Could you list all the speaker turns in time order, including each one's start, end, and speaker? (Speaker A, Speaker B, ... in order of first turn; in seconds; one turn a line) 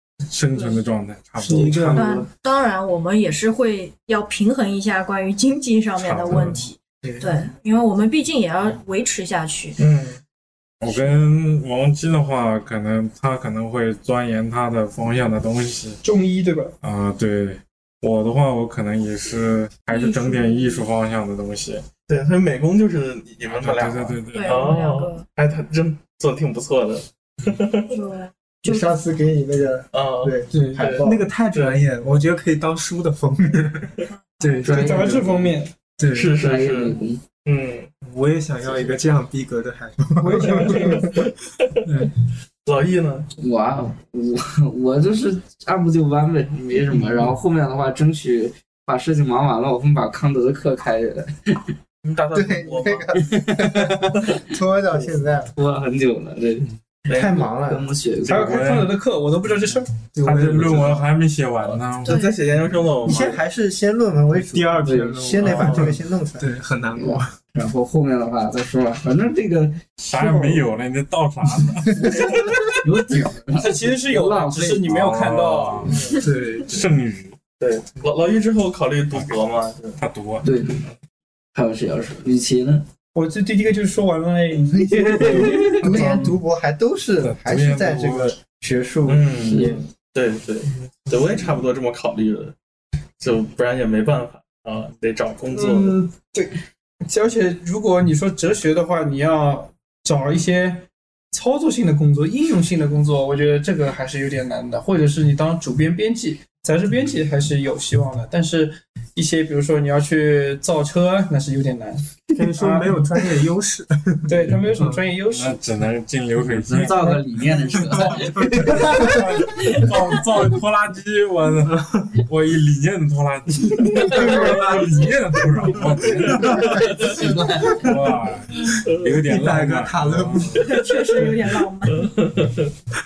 Speaker A: 0.3-2.0
Speaker B: 0.5-0.8
Speaker C: 1.4-2.3
Speaker B: 1.6-9.8
Speaker A: 6.0-6.7
Speaker C: 6.5-7.4
Speaker A: 10.8-16.0
Speaker B: 10.9-11.2
Speaker D: 16.0-16.7
Speaker A: 16.8-21.8
Speaker B: 19.9-20.8
Speaker E: 22.1-27.9
Speaker A: 23.6-24.8
Speaker B: 24.3-25.2
Speaker B: 27.9-28.9
Speaker F: 28.6-31.3
Speaker E: 29.9-31.8
Speaker C: 30.5-36.4
Speaker G: 34.6-35.4
Speaker D: 34.6-35.7
Speaker E: 36.1-37.9
Speaker G: 36.3-37.2
Speaker C: 38.0-41.3
Speaker D: 40.2-41.2
Speaker E: 40.5-42.1
Speaker C: 41.8-42.1
Speaker E: 42.6-43.3
Speaker G: 43.4-51.7
Speaker E: 52.0-53.3
Speaker F: 52.3-55.5
Speaker G: 53.3-54.2
Speaker G: 54.9-58.6
Speaker E: 57.0-57.5
Speaker F: 57.1-57.9
Speaker A: 58.2-58.9
Speaker D: 58.3-60.1
Speaker C: 60.1-61.0
Speaker A: 60.2-62.2
Speaker B: 62.0-62.4
Speaker E: 62.0-63.4
Speaker F: 63.0-66.5
Speaker C: 64.3-67.3
Speaker G: 64.8-65.3
Speaker E: 65.4-65.9
Speaker G: 67.0-70.6
Speaker A: 70.0-72.8
Speaker G: 72.8-74.9
Speaker D: 73.6-76.0
Speaker A: 74.9-76.1
Speaker C: 76.2-76.9
Speaker A: 76.6-77.3
Speaker E: 77.6-80.0
Speaker A: 80.0-80.5
Speaker G: 80.4-80.8
Speaker G: 81.5-82.9
Speaker D: 83.1-86.2
Speaker F: 84.9-89.8
Speaker A: 85.9-86.3
Speaker A: 87.2-88.3
Speaker E: 89.0-92.5
Speaker G: 89.4-89.8
Speaker E: 93.2-95.9
Speaker D: 95.5-113.0
Speaker C: 112.3-115.0
Speaker D: 114.3-115.6
Speaker A: 115.3-117.2
Speaker G: 116.4-119.9
Speaker A: 117.7-130.7
Speaker C: 118.1-119.0
Speaker C: 121.7-122.2
Speaker E: 126.1-127.2
Speaker G: 126.8-127.9
Speaker E: 128.8-129.2
Speaker C: 129.2-130.5
Speaker B: 130.6-132.1
Speaker E: 130.6-131.2
Speaker E: 131.9-132.7